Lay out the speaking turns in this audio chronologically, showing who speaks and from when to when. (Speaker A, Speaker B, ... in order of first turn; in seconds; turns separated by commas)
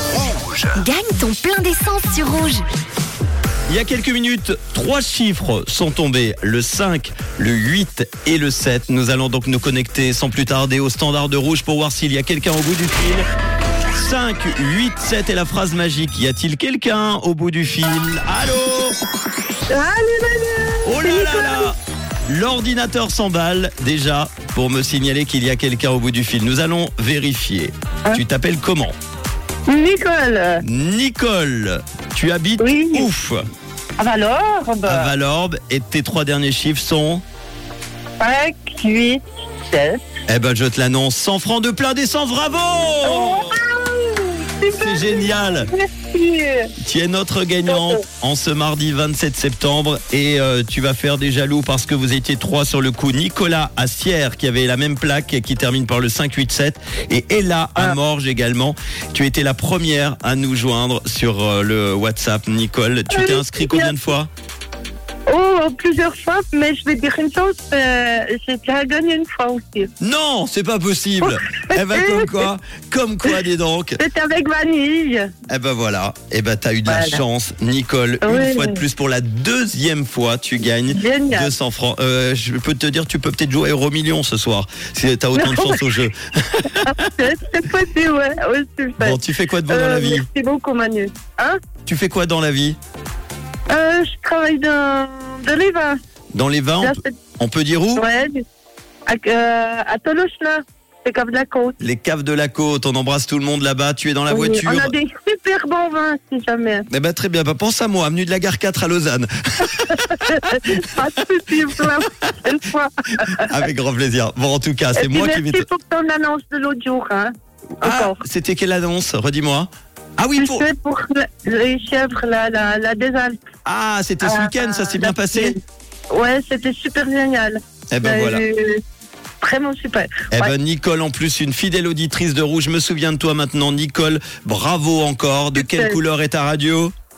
Speaker A: 0.7-2.6, Speaker B: 3.7-13.2, Speaker B: 13.9-18.9, Speaker C: 19.7-21.7, Speaker B: 20.8-21.8, Speaker B: 22.3-28.9, Speaker C: 29.7-30.6, Speaker B: 30.6-33.4, Speaker C: 32.6-33.1, Speaker C: 34.0-35.1, Speaker B: 34.9-37.2, Speaker C: 38.2-40.0, Speaker B: 40.3-43.6, Speaker C: 43.0-46.7, Speaker B: 44.7-45.7, Speaker B: 46.8-64.3, Speaker C: 47.7-48.0, Speaker C: 63.1-63.9, Speaker C: 65.3-69.9, Speaker B: 70.0-74.0, Speaker C: 71.2-72.5, Speaker C: 74.0-75.3, Speaker B: 75.5-87.1, Speaker C: 76.9-77.2, Speaker C: 78.2-78.8, Speaker C: 80.9-81.5, Speaker C: 85.3-85.9, Speaker C: 86.8-91.6, Speaker B: 89.0-90.3, Speaker B: 91.8-92.8, Speaker C: 93.7-95.9, Speaker B: 96.3-98.0, Speaker C: 96.8-97.2, Speaker C: 98.0-98.4, Speaker C: 99.1-101.8, Speaker B: 101.8-104.9, Speaker C: 104.3-106.9, Speaker B: 106.9-110.5, Speaker C: 109.9-113.5, Speaker B: 113.4-115.7, Speaker C: 115.0-118.2, Speaker B: 117.8-120.7, Speaker C: 120.4-123.4, Speaker B: 123.6-125.5, Speaker C: 124.2-125.6, Speaker C: 126.1-128.8, Speaker B: 127.9-128.4, Speaker C: 129.4-130.5, Speaker B: 130.3-136.9, Speaker C: 135.5-135.9